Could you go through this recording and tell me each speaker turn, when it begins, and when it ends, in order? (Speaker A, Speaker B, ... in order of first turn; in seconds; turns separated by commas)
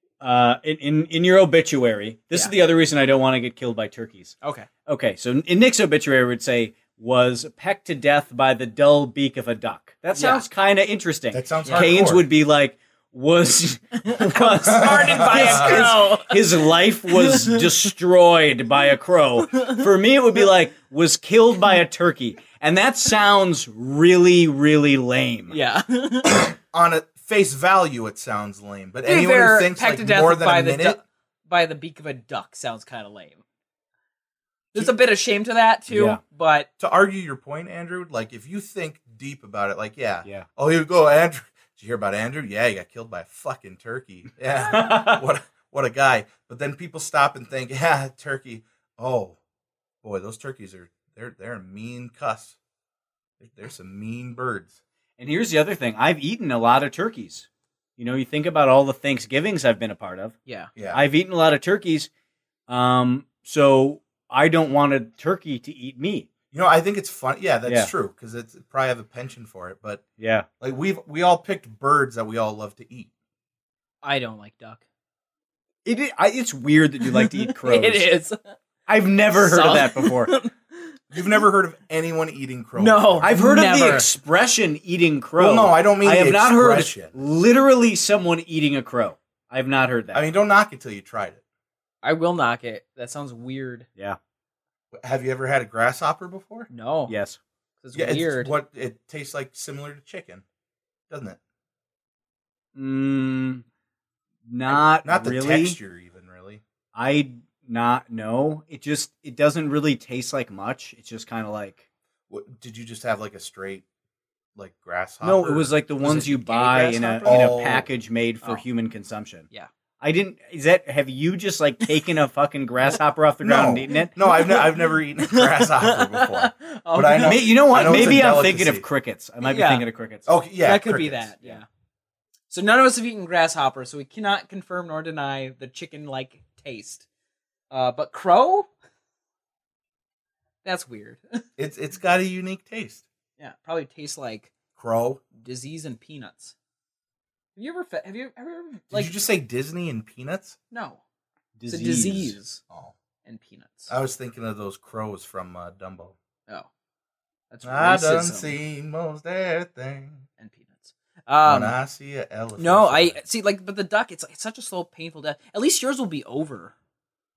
Speaker A: 0.2-4.3, Speaker B: 4.4-4.7, Speaker A: 4.9-25.5, Speaker B: 10.1-10.5, Speaker C: 11.3-12.2, Speaker B: 11.7-11.9, Speaker B: 14.0-16.4, Speaker C: 14.3-16.0, Speaker B: 17.1-17.7, Speaker B: 25.5-26.5, Speaker C: 26.7-31.0, Speaker B: 29.1-33.4, Speaker B: 34.7-36.7, Speaker A: 35.9-36.2, Speaker C: 36.8-49.4, Speaker A: 44.5-45.2, Speaker C: 50.0-52.6, Speaker C: 53.4-54.8, Speaker A: 55.2-57.5, Speaker A: 58.0-60.3, Speaker B: 60.5-60.7, Speaker C: 60.8-61.0, Speaker A: 60.9-62.1, Speaker A: 62.7-66.3, Speaker C: 66.5-70.0, Speaker A: 67.7-67.9, Speaker A: 70.2-70.5, Speaker C: 70.6-73.1, Speaker B: 74.0-74.8, Speaker A: 75.8-78.1, Speaker B: 77.0-78.5, Speaker A: 78.9-80.4, Speaker B: 79.3-80.5, Speaker C: 81.1-83.3, Speaker B: 82.7-84.1, Speaker A: 83.2-90.2, Speaker C: 85.4-87.2, Speaker C: 90.1-91.4, Speaker B: 92.0-93.9, Speaker C: 94.9-96.7, Speaker B: 96.7-97.1, Speaker A: 97.1-97.4, Speaker B: 97.8-98.5, Speaker C: 97.9-100.4, Speaker C: 101.1-101.4, Speaker A: 102.7-103.6, Speaker A: 104.5-105.8, Speaker C: 104.7-106.6, Speaker A: 106.9-111.8, Speaker C: 112.3-113.8, Speaker C: 114.5-116.2, Speaker A: 115.2-119.5, Speaker B: 116.0-117.5, Speaker C: 117.2-117.9, Speaker A: 120.0-124.1, Speaker C: 123.4-128.8, Speaker B: 124.2-128.2, Speaker A: 127.2-130.3, Speaker B: 129.4-129.8, Speaker C: 130.2-131.3, Speaker B: 130.6-131.7, Speaker B: 132.5-137.1, Speaker B: 137.7-138.7, Speaker B: 140.6-141.4, Speaker C: 141.6-143.0, Speaker B: 143.4-144.5, Speaker C: 144.8-145.2, Speaker B: 145.3-146.5, Speaker B: 147.6-149.1, Speaker C: 148.9-150.6, Speaker B: 150.7-151.0, Speaker A: 151.6-152.4, Speaker B: 151.7-152.6, Speaker B: 153.2-153.9, Speaker C: 153.9-156.1, Speaker B: 157.5-158.6, Speaker C: 157.6-160.2, Speaker B: 160.4-161.8, Speaker C: 161.4-163.2, Speaker B: 162.6-166.7